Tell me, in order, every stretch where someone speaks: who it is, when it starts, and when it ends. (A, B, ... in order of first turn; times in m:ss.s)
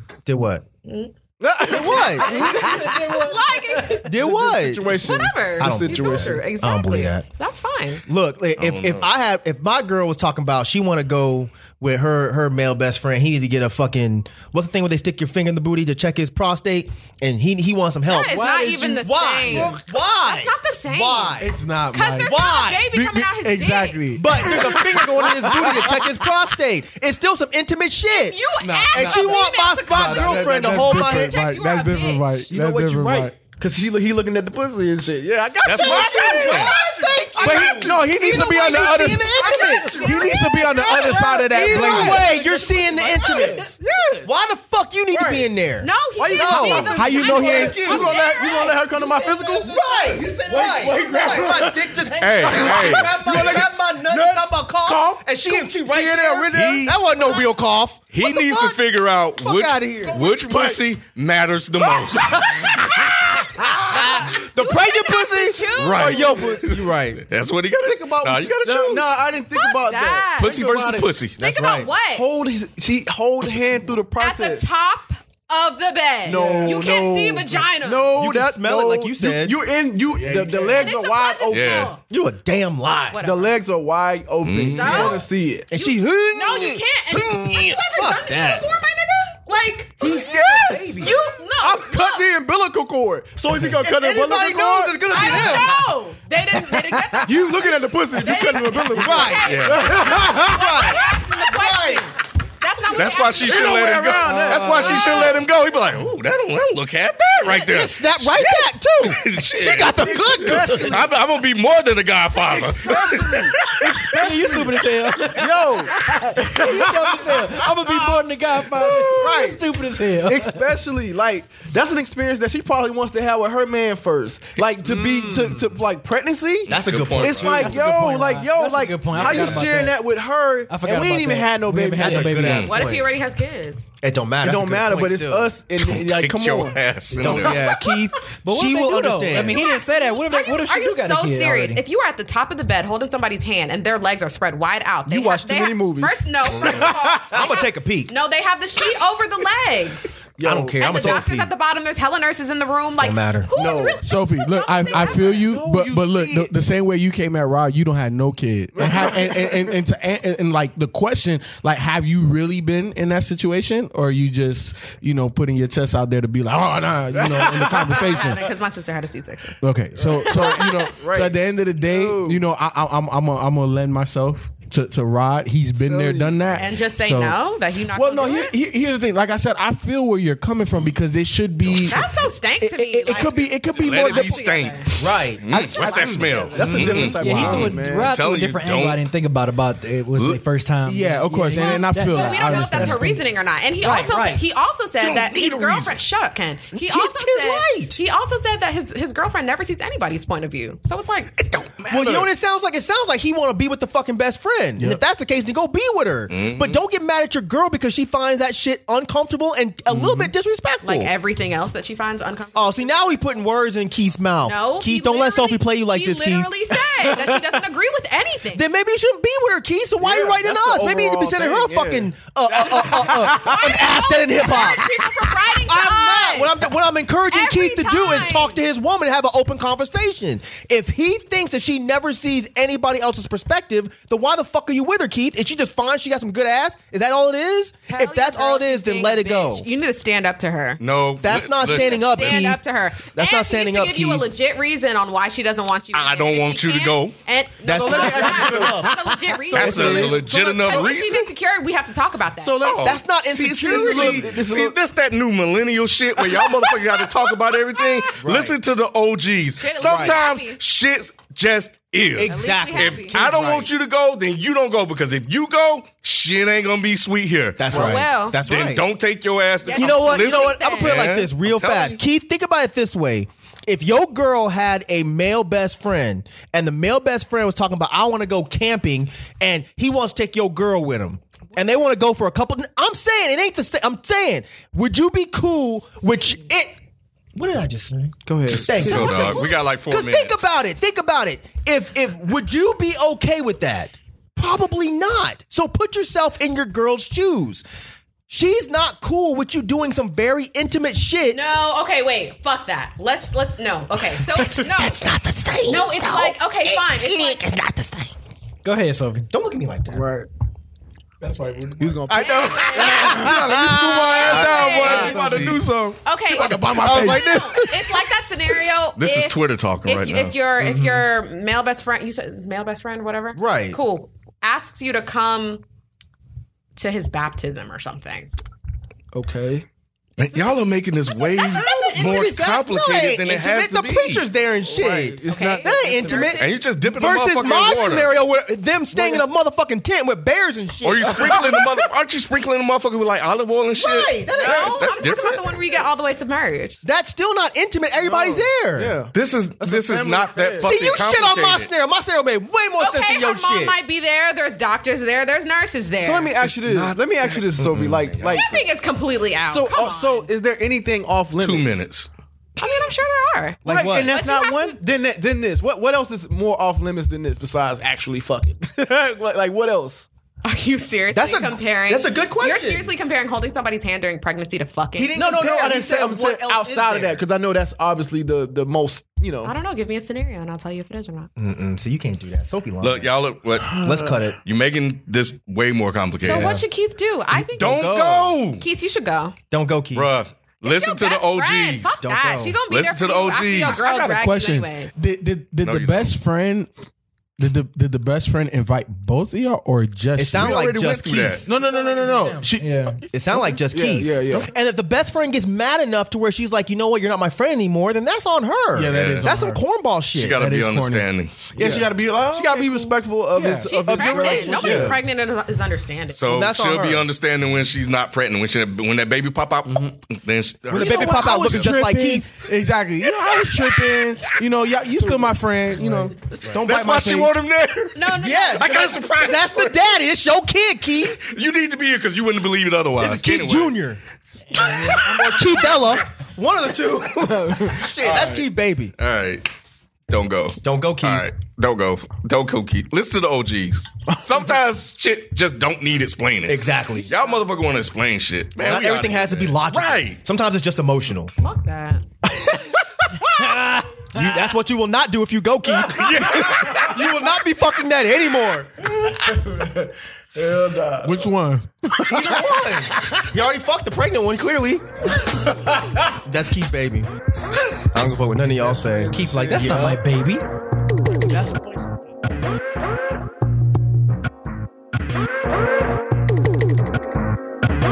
0:00.2-0:00.6 A
0:00.8-0:01.1 B
0:01.4-0:02.9 C
0:01.7-0:02.8 A
0:01.9-0:04.1 B
0:02.5-0:04.0 D
0:03.9-0:05.0 A
0:04.1-0:06.4 C
0:05.0-0:08.0 B
0:05.6-0:07.3 A
0:08.1-0:21.5 A
0:08.6-0:09.1 E
0:18.1-0:24.5 B
0:18.2-0:19.0 F
0:19.5-0:19.8 C
0:21.4-0:22.3 F
0:22.2-0:22.9 A
0:22.9-0:25.0 F
0:24.1-0:31.4 A
0:28.1-0:32.4 B
0:28.6-0:33.4 F
0:32.4-0:38.6 C
0:35.6-0:43.7 A
0:35.6-0:36.7 E
0:37.4-0:42.3 F
0:39.3-0:41.2 B
0:40.9-0:43.8 C
0:41.8-0:44.3 D
0:44.2-0:48.2 A
0:45.1-0:45.5 C
0:45.8-0:48.8 B
0:46.2-0:49.8 C
0:46.9-0:47.9 F
0:48.5-0:51.7 D
0:49.6-0:58.8 A
0:50.5-0:57.0 C
0:52.2-0:53.2 E
0:56.5-0:56.9 E
0:58.1-1:03.0 E
0:59.4-1:00.8 A
1:00.1-1:00.4 B
1:02.0-1:03.4 B
1:02.5-1:07.2 A
1:03.9-1:06.3 B
1:05.8-1:09.2 E
1:06.0-1:06.8 C
1:07.8-1:11.1 C
1:07.9-1:08.5 A
1:09.5-1:10.6 B
1:10.4-1:11.4 E
1:11.4-1:11.9 A
1:11.4-1:12.3 B
1:12.1-1:14.7 C
1:14.2-1:18.1 B
1:16.2-1:21.9 C
1:16.3-1:16.7 A
1:16.4-1:16.7 F
1:18.1-1:19.6 A
1:20.1-1:20.9 F
1:20.7-1:22.0 B
1:21.5-1:21.9 E
1:22.1-1:23.2 A
1:23.1-1:23.6 B
1:23.2-1:25.7 C
1:24.4-1:25.2 E
1:24.7-1:32.3 B
1:25.7-1:28.7 A
1:30.0-1:31.2 A
1:30.0-1:35.8 C
1:33.7-1:35.8 A
1:35.1-1:44.0 B
1:37.2-1:40.5 C
1:38.9-1:42.1 A
1:39.4-1:39.9 E
1:42.9-1:54.1 E
1:43.4-1:45.3 C
1:44.5-1:45.0 A
1:44.7-1:45.4 B
1:47.4-1:51.0 A
1:50.1-1:51.1 C
1:52.4-1:54.8 C
1:53.8-2:00.6 D
1:55.3-1:55.9 C
1:56.5-1:58.2 C
1:58.7-2:12.6 C
2:04.8-2:05.4 E
2:04.9-2:05.7 A
2:06.7-2:07.7 E
2:06.7-2:07.8 A
2:07.4-2:10.0 D
2:09.1-2:09.7 E
2:10.7-2:12.7 D
2:12.0-2:13.1 A
2:12.4-2:12.7 E
2:12.6-2:13.9 B
2:14.0-2:15.5 A
2:14.4-2:17.6 C
2:15.8-2:17.8 E
2:17.1-2:19.6 A
2:18.4-2:21.8 D
2:19.5-2:30.1 B
2:25.0-2:27.5 C
2:26.5-2:28.1 A
2:30.4-2:31.2 C
2:30.4-2:31.5 A
2:30.8-2:35.5 B
2:33.0-2:33.5 A
2:33.5-2:34.0 C
2:34.0-2:48.5 F
2:34.9-2:36.5 C
2:38.8-2:39.8 C
2:47.1-2:48.2 C
2:47.5-2:50.9 B
2:49.6-2:57.4 F
2:50.0-2:52.4 C
2:55.8-2:56.6 C
2:56.6-2:58.5 B
2:57.9-3:02.0 F
3:01.7-3:02.1 E
3:01.8-3:04.9 B
3:02.6-3:04.4 F
3:03.2-3:09.0 E
3:05.0-3:05.4 A
3:05.5-3:06.2 F
3:05.6-3:07.1 B
3:06.5-3:08.1 C
3:07.2-3:13.2 D
3:07.2-3:07.7 F
3:10.1-3:10.4 E
3:10.8-3:13.2 F
3:11.6-3:21.3 B
3:13.8-3:14.4 D
3:15.0-3:16.0 E
3:16.7-3:18.0 A
3:21.4-3:22.3 E
3:21.9-3:31.1 A
3:26.3-3:26.8 E
3:29.9-3:30.3 F
3:30.8-3:33.2 B
3:32.5-3:37.6 A
3:34.4-3:38.6 B
3:38.5-3:59.7 A
3:40.0-3:43.7 C
3:43.3-3:46.6 B
3:47.3-3:48.6 B
3:57.9-4:00.8 B
4:00.8-4:02.5 E
4:01.2-4:04.3 A
4:01.6-4:12.8 B
4:05.9-4:07.2 E
4:07.6-4:11.0 A
4:07.6-4:09.0 C
4:09.5-4:10.3 C
4:09.5-4:11.3 E
4:12.4-4:14.7 C
4:12.6-4:14.4 A
4:12.6-4:13.0 E
4:13.7-4:32.0 E
4:16.2-4:18.1 B
4:18.2-4:18.6 A
4:19.5-4:20.6 B
4:19.8-4:20.2 A
4:22.1-4:23.7 A
4:22.3-4:23.2 B
4:27.6-4:28.8 A
4:27.7-4:28.4 B
4:29.6-4:31.1 B
4:29.7-4:46.8 A
4:47.3-4:57.6 A
4:48.2-4:49.4 C
4:48.5-4:50.4 E
4:49.0-4:49.5 B
4:58.3-5:01.4 A
5:01.3-5:05.0 B
5:04.3-5:08.1 A
5:05.6-5:07.4 B
5:08.6-5:09.3 D
5:09.3-5:10.0 A
5:09.9-5:10.3 C
5:11.2-5:18.1 F
5:11.8-5:13.2 C
5:12.2-5:14.3 A
5:12.3-5:13.2 B
5:14.1-5:15.2 B
5:14.2-5:15.6 E
5:14.3-5:15.6 C
5:16.0-5:25.6 B
5:16.8-5:17.6 A
5:19.0-5:20.3 E
5:20.6-5:21.1 A
5:23.3-5:23.8 A
5:26.8-5:28.3 B
5:29.1-5:29.7 C
5:30.2-5:34.2 E
5:31.4-5:32.4 B
5:31.4-5:41.4 A
5:34.6-5:36.4 C
5:35.3-5:36.5 B
5:36.4-5:38.1 E
5:38.9-5:39.2 C
5:40.8-5:45.5 E
5:41.1-5:41.7 C
5:43.8-5:45.0 A
5:44.3-5:46.8 B
5:46.8-5:49.0 A
5:48.0-5:50.9 C
5:49.1-5:51.7 E
5:50.6-5:53.8 A
5:52.8-5:56.3 B
5:56.0-5:58.6 C
5:56.4-5:58.4 E
5:58.3-6:00.3 B
5:59.5-6:01.8 C
6:01.4-6:02.1 E
6:02.6-6:04.8 B
6:03.6-6:04.1 A
6:03.6-6:10.1 C
6:10.4-6:15.2 B
6:11.1-6:12.9 A
6:15.0-6:17.2 A
6:15.1-6:19.5 C
6:19.4-6:21.3 B
6:21.4-6:23.1 A
6:22.8-6:23.8 E
6:23.6-6:24.2 C
6:23.8-6:24.4 A
6:24.4-6:26.6 E
6:26.2-6:26.6 A
6:26.2-6:27.9 B
6:27.3-6:28.4 A
6:27.6-6:28.6 E
6:28.6-6:29.3 B
6:29.5-6:30.1 A
6:29.9-6:32.0 E
6:30.6-6:34.9 B
6:32.0-6:32.6 A
6:32.7-6:33.8 E
6:33.6-6:36.7 F
6:35.6-6:36.2 E
6:37.4-6:40.6 F
6:40.2-6:41.4 A
6:40.3-6:41.4 E
6:41.4-6:42.9 F
6:41.5-6:43.0 D
6:43.1-6:50.4 A
6:43.3-6:44.5 C
6:48.7-6:49.6 F
6:48.9-6:49.3 E
6:50.1-6:51.4 E
6:50.3-6:53.9 F
6:51.5-6:52.0 D
6:52.3-6:55.0 C
6:53.5-6:56.2 B
6:53.8-6:55.0 A
6:54.6-6:55.0 F
6:56.2-7:01.8 E
6:56.2-6:57.1 A
6:59.6-6:59.9 F
7:00.7-7:02.3 A
7:00.8-7:01.5 B
7:01.4-7:07.4 F
7:03.0-7:04.4 E
7:06.5-7:09.8 E
7:07.9-7:09.0 B
7:08.1-7:11.2 A
7:11.2-7:13.8 E
7:13.0-7:14.0 A
7:14.6-7:15.1 D
7:14.8-7:15.5 E
7:14.9-7:18.9 A
7:17.3-7:18.2 C
7:18.0-7:18.4 E
7:19.0-7:19.5 E
7:20.1-7:30.2 E
7:20.6-7:21.2 A
7:26.5-7:27.1 A
7:28.6-7:31.3 A
7:31.4-7:32.0 B
7:33.3-7:34.3 D
7:34.1-7:38.8 A
7:35.9-7:37.0 E
7:38.8-7:41.3 C
7:41.0-7:42.7 F
7:42.0-7:44.8 A
7:45.5-7:46.0 C
7:46.2-7:47.1 A
7:47.9-7:50.0 A
7:48.6-7:50.0 C
7:49.1-7:50.4 D
7:51.2-7:52.0 A